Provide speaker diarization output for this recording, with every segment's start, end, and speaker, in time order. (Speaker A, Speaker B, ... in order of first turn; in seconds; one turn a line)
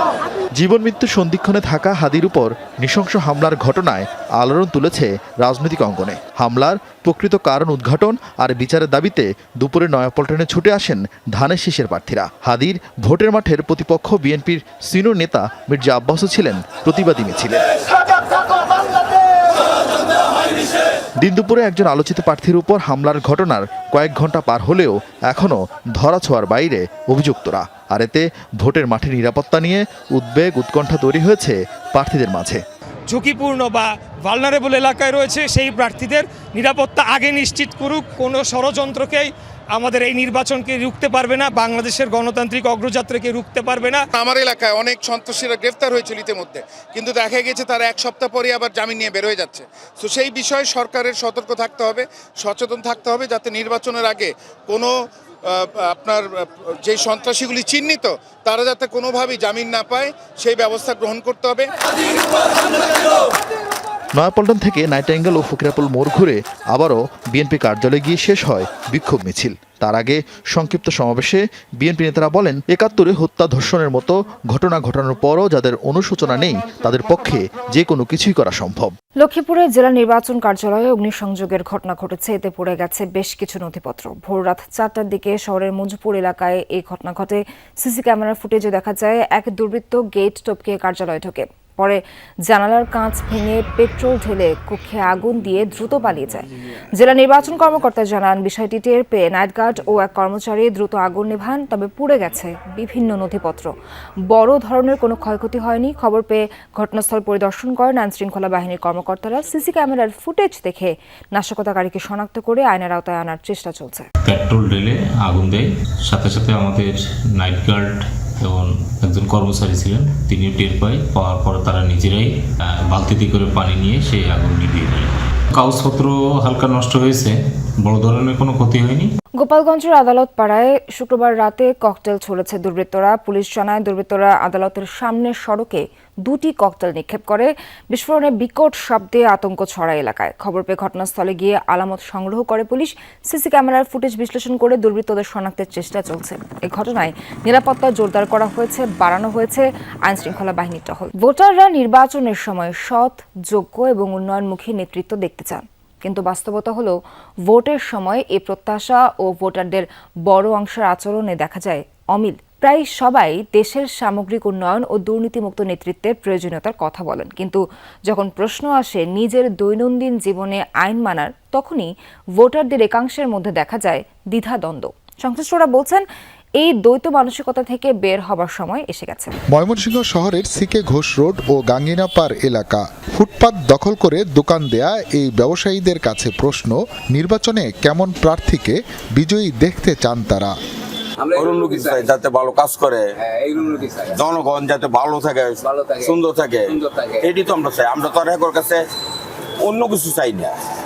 Speaker A: 0.6-17.6
Speaker A: 21.2-32.6
Speaker B: 33.1-44.0
Speaker C: 44.2-54.9
Speaker C: 55.8-61.7
Speaker A: 64.1-78.9
Speaker D: 79.2-103.7
Speaker D: 104.3-114.1
Speaker E: 114.2-122.3
Speaker E: 122.9-129.1
Speaker D: 129.4-176.0
Speaker D: 176.6-179.3
Speaker F: 179.5-190.5
Speaker G: 191.3-193.1
Speaker G: 193.6-198.8
Speaker G: 199.6-200.6